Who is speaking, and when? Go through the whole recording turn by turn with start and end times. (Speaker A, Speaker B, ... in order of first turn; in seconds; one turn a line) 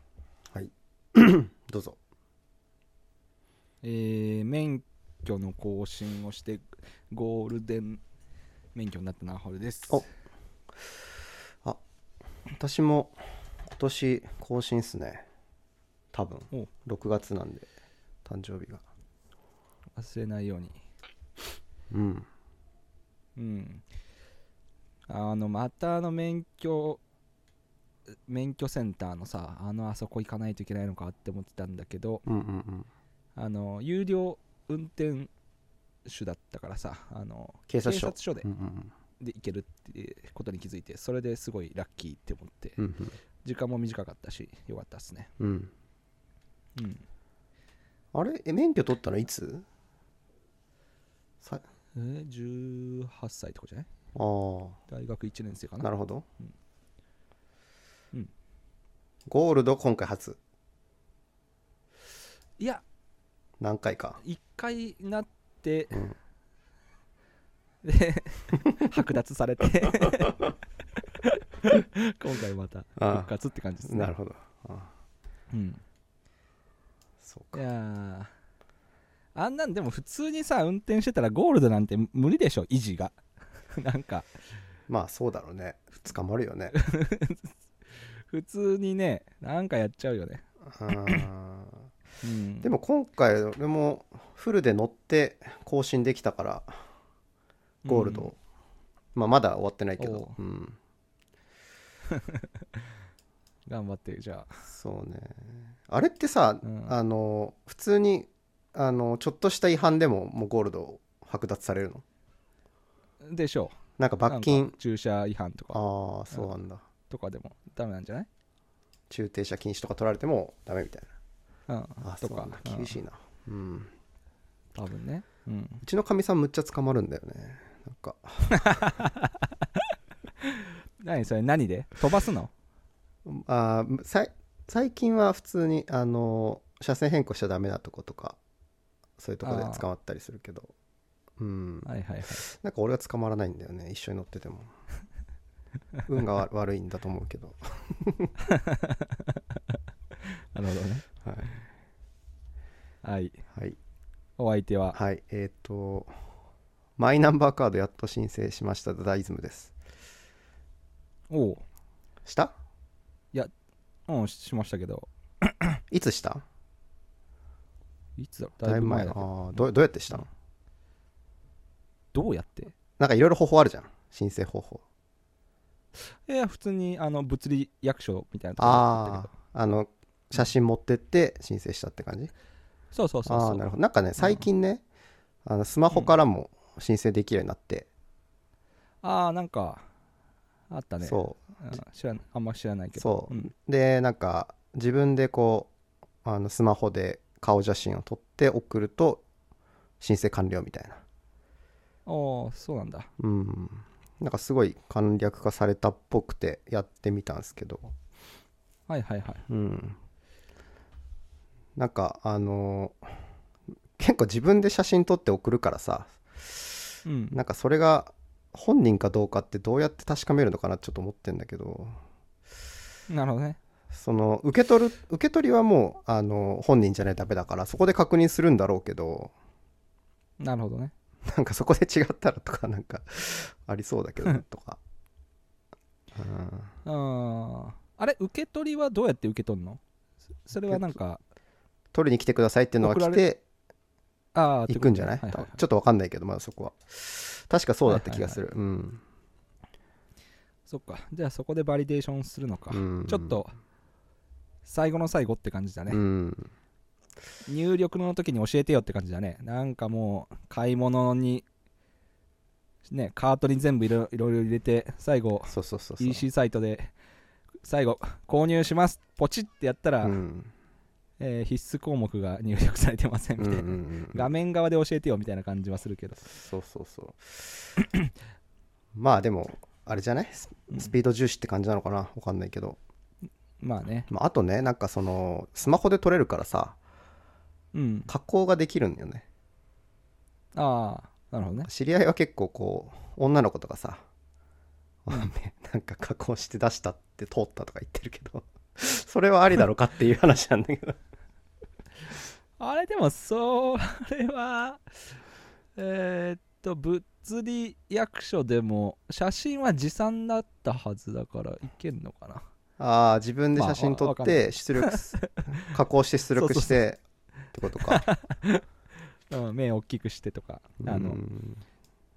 Speaker A: 0.5-2.0
Speaker B: 3.8-8.0
Speaker B: 8.8-10.1
Speaker A: 12.6-15.2
Speaker A: 16.1-17.7
Speaker A: 18.2-18.8
Speaker B: 20.0-20.8
Speaker A: 21.9-22.3
Speaker B: 23.4-23.8
Speaker B: 25.1-27.0
Speaker B: 28.3-32.2
Speaker A: 32.3-32.9
Speaker B: 33.4-35.3
Speaker B: 36.1-38.5
Speaker A: 37.7-38.9
Speaker B: 39.2-42.8
Speaker A: 42.8-43.1
Speaker B: 43.5-45.3
Speaker A: 45.4-45.7
Speaker B: 46.8-47.0
Speaker A: 48.1-49.6
Speaker B: 52.0-53.9
Speaker A: 54.1-54.8
Speaker B: 54.9-55.9
Speaker A: 55.8-56.2
Speaker A: 59.3-60.4
Speaker B: 62.6-62.8
Speaker A: 63.6-64.2
Speaker B: 64.2-66.0
Speaker B: 67.8-74.1
Speaker A: 73.0-73.3
Speaker A: 73.8-74.9
Speaker B: 75.5-75.8
Speaker A: 77.2-77.6
Speaker B: 77.5-78.3
Speaker B: 79.3-83.2
Speaker B: 83.7-84.3
Speaker A: 84.9-86.7
Speaker B: 86.7-87.5
Speaker B: 88.3-91.2
Speaker A: 90.7-91.9
Speaker B: 92.2-92.7
Speaker A: 92.6-96.8
Speaker B: 97.8-98.3
Speaker A: 97.9-98.4
Speaker A: 99.2-100.8
Speaker B: 100.0-100.4
Speaker B: 102.1-102.5
Speaker B: 103.7-104.6
Speaker A: 104.7-112.0
Speaker B: 106.6-106.9
Speaker B: 113.2-116.5
Speaker A: 114.0-114.8
Speaker A: 115.7-116.8
Speaker B: 117.1-118.3
Speaker A: 119.1-121.1
Speaker B: 121.7-123.0
Speaker A: 122.0-123.9
Speaker B: 124.8-125.8
Speaker A: 125.8-129.0
Speaker B: 128.5-129.8
Speaker B: 130.4-132.5
Speaker A: 133.3-138.4
Speaker A: 139.2-140.7
Speaker B: 139.4-139.8
Speaker A: 141.4-141.9
Speaker B: 141.8-142.5
Speaker A: 142.4-144.7
Speaker A: 146.1-148.3
Speaker B: 148.4-151.0
Speaker A: 151.2-151.6
Speaker B: 153.0-153.4
Speaker B: 154.4-155.0
Speaker A: 154.9-156.1
Speaker A: 157.0-159.7
Speaker B: 161.3-161.6
Speaker A: 162.2-162.5
Speaker B: 164.1-165.8
Speaker A: 165.9-166.4
Speaker B: 168.2-169.6
Speaker A: 168.6-170.3
Speaker B: 172.1-172.7
Speaker A: 173.0-174.8
Speaker B: 176.3-179.3
Speaker A: 178.6-182.3
Speaker B: 182.9-184.4
Speaker A: 183.3-184.8
Speaker A: 185.4-187.9
Speaker B: 189.0-189.9
Speaker B: 190.7-193.5
Speaker A: 191.0-191.4
Speaker A: 193.0-195.7
Speaker A: 196.2-199.2
Speaker A: 200.0-201.0
Speaker B: 202.1-203.1
Speaker A: 203.2-207.9
Speaker B: 208.9-209.4
Speaker A: 209.5-210.0
Speaker A: 211.8-213.2
Speaker A: 214.0-216.8
Speaker B: 217.1-217.4
Speaker A: 217.3-222.0
Speaker B: 223.1-223.6
Speaker A: 223.9-229.3
Speaker B: 230.4-230.9
Speaker A: 231.3-234.8
Speaker A: 236.1-236.8
Speaker B: 236.8-239.8
Speaker B: 240.4-241.2
Speaker A: 241.9-243.4
Speaker B: 242.8-243.2
Speaker B: 244.3-245.6
Speaker A: 244.7-249.0
Speaker B: 247.9-248.4
Speaker B: 250.7-253.5
Speaker A: 252.7-253.4
Speaker B: 254.7-256.0
Speaker A: 255.9-256.5
Speaker B: 257.5-261.4
Speaker B: 262.9-266.9
Speaker A: 265.5-266.2
Speaker B: 267.6-270.2
Speaker A: 270.0-270.5
Speaker B: 271.2-276.3
Speaker A: 273.4-274.3
Speaker A: 276.2-277.7
Speaker B: 277.8-278.1
Speaker A: 278.9-282.8
Speaker B: 283.6-284.1
Speaker A: 284.1-286.8
Speaker B: 287.7-288.1
Speaker A: 288.1-289.2
Speaker B: 290.6-291.7
Speaker A: 291.7-294.0
Speaker A: 295.1-301.0
Speaker B: 302.6-304.9
Speaker B: 305.8-312.4
Speaker A: 312.8-317.0
Speaker B: 313.6-315.7
Speaker B: 316.4-316.8
Speaker A: 317.5-318.1
Speaker B: 317.8-318.6
Speaker B: 319.3-321.2
Speaker A: 320.8-321.6